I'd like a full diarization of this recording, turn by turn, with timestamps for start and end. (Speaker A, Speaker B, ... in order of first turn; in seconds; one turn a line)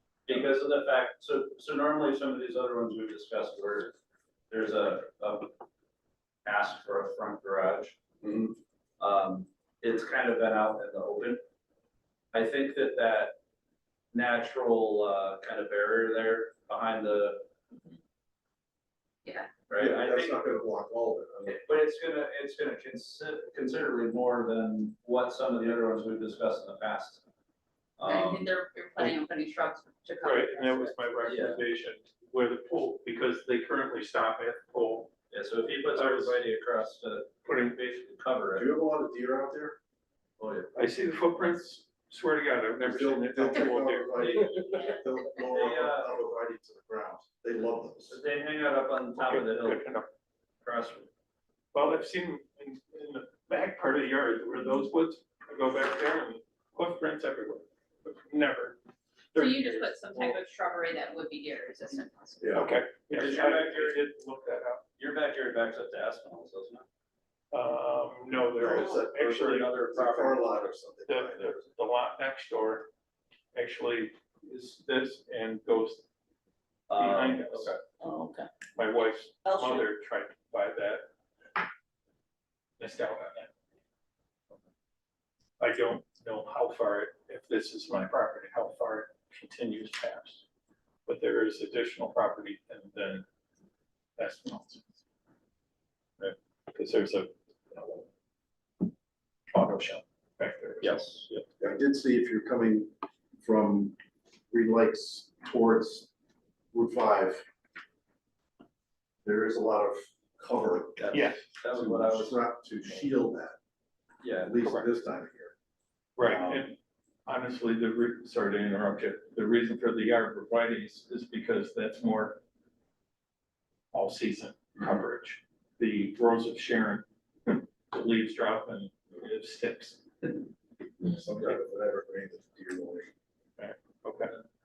Speaker A: 0.3-4.0
Speaker A: 4.5-5.6
Speaker A: 6.4-8.0
Speaker B: 8.2-8.5
Speaker A: 9.0-11.4
Speaker A: 12.3-13.4
Speaker A: 14.1-17.5
Speaker C: 19.2-19.5
Speaker A: 19.7-20.6
Speaker B: 19.8-21.6
Speaker A: 21.4-27.2
Speaker A: 28.0-28.5
Speaker C: 28.1-31.0
Speaker D: 30.2-35.1
Speaker A: 31.2-31.6
Speaker A: 35.3-38.7
Speaker D: 35.9-36.4
Speaker D: 37.4-37.8
Speaker B: 38.5-39.8
Speaker A: 40.4-40.7
Speaker D: 40.8-44.7
Speaker B: 42.8-48.2
Speaker A: 44.1-44.9
Speaker A: 45.4-46.1
Speaker A: 48.1-49.9
Speaker D: 49.2-50.1
Speaker A: 50.6-51.1
Speaker D: 51.7-58.8
Speaker D: 59.3-60.4
Speaker C: 59.3-62.5
Speaker B: 62.4-62.7
Speaker D: 62.5-64.8
Speaker A: 63.1-64.0
Speaker A: 65.0-66.8
Speaker D: 67.5-69.8
Speaker B: 68.6-69.2
Speaker A: 68.6-70.5
Speaker B: 69.9-71.7
Speaker D: 71.1-72.9
Speaker D: 73.5-76.0
Speaker A: 76.9-77.8
Speaker D: 76.9-77.8
Speaker C: 78.0-78.5
Speaker D: 78.8-81.1
Speaker C: 79.4-79.8
Speaker D: 82.8-83.5
Speaker D: 85.6-90.4
Speaker D: 91.1-93.3
Speaker D: 94.2-94.9
Speaker D: 96.7-98.1
Speaker D: 99.5-101.1
Speaker A: 100.8-101.5
Speaker B: 101.6-104.0
Speaker B: 104.5-106.1
Speaker B: 106.7-107.4
Speaker B: 109.2-113.6
Speaker A: 111.0-113.0
Speaker D: 111.1-111.5
Speaker A: 114.2-114.5
Speaker B: 114.4-115.5
Speaker D: 114.6-114.9
Speaker D: 116.2-122.4
Speaker B: 116.2-116.6
Speaker D: 123.9-130.5
Speaker B: 131.0-133.1
Speaker D: 133.6-134.4